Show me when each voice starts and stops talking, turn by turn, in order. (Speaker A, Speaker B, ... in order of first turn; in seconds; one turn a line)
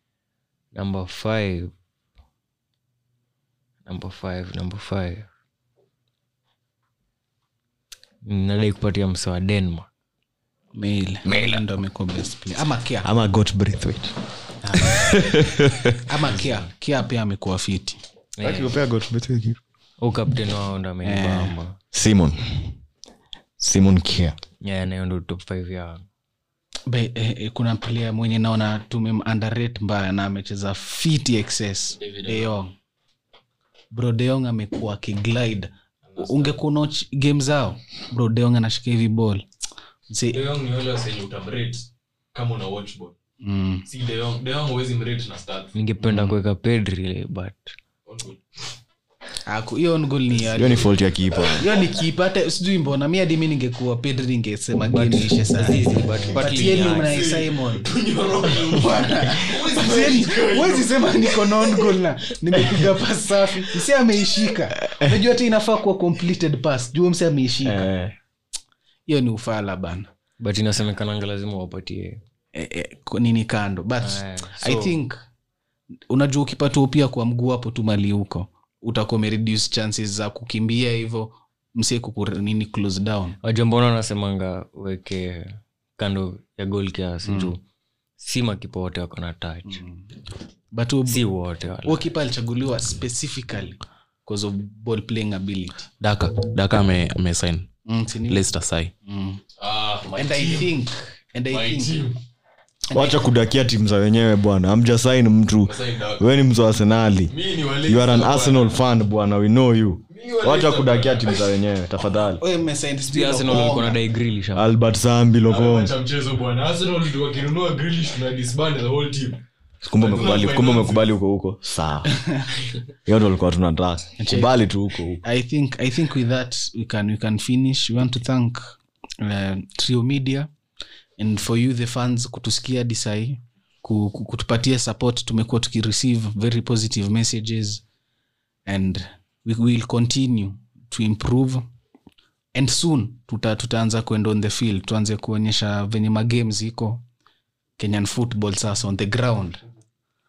Speaker A: 0.7-1.7
Speaker A: 3.9-5.3
Speaker A: 8.2-9.9
Speaker B: 10.7-13.1
Speaker C: 11.2-11.6
Speaker C: 13.0-14.1
Speaker B: 14.6-15.2
Speaker C: 14.7-16.1
Speaker B: 16.1-18.0
Speaker A: 18.4-18.7
Speaker C: 18.4-19.6
Speaker A: 20.0-21.8
Speaker B: 21.0-21.5
Speaker C: 21.9-22.7
Speaker C: 23.6-24.4
Speaker A: 24.6-26.0
Speaker B: 26.9-32.7
Speaker D: 32.0-32.6
Speaker B: 33.9-39.4
Speaker D: 36.0-36.6
Speaker B: 40.1-40.4
Speaker D: 40.3-43.2
Speaker B: 43.4-43.9
Speaker D: 43.9-45.7
Speaker A: 45.7-47.7
Speaker B: 46.0-46.3
Speaker D: 48.0-48.4
Speaker B: 49.5-67.9
Speaker C: 50.5-51.7
Speaker A: 54.9-57.2
Speaker D: 56.4-61.6
Speaker C: 62.5-62.8
Speaker C: 64.8-65.2
Speaker C: 67.6-68.1
Speaker B: 69.1-70.1
Speaker A: 70.4-72.2
Speaker B: 72.5-75.2
Speaker A: 74.0-75.0
Speaker B: 76.1-83.4
Speaker A: 83.4-87.6
Speaker B: 87.2-87.5
Speaker A: 88.2-89.8
Speaker B: 89.7-90.1
Speaker B: 90.7-91.2
Speaker A: 91.0-92.1
Speaker B: 91.8-95.9
Speaker E: 96.0-97.7
Speaker B: 97.9-98.4
Speaker E: 98.3-98.9
Speaker B: 99.0-99.4
Speaker D: 99.6-100.7
Speaker B: 100.2-102.0
Speaker D: 101.5-102.2
Speaker B: 102.9-103.2
Speaker C: 102.9-107.3
Speaker D: 105.6-106.3
Speaker D: 107.3-108.8
Speaker C: 107.8-112.4
Speaker D: 110.1-112.3
Speaker B: 112.4-114.0
Speaker A: 113.1-114.7
Speaker C: 114.5-115.9
Speaker D: 115.5-119.4
Speaker C: 119.8-122.1
Speaker D: 120.0-121.1
Speaker B: 122.1-122.5
Speaker C: 123.0-125.2
Speaker B: 124.2-124.5
Speaker B: 125.2-130.5
Speaker B: 131.2-137.8
Speaker B: 138.7-141.6
Speaker B: 142.5-147.0
Speaker B: 147.8-149.6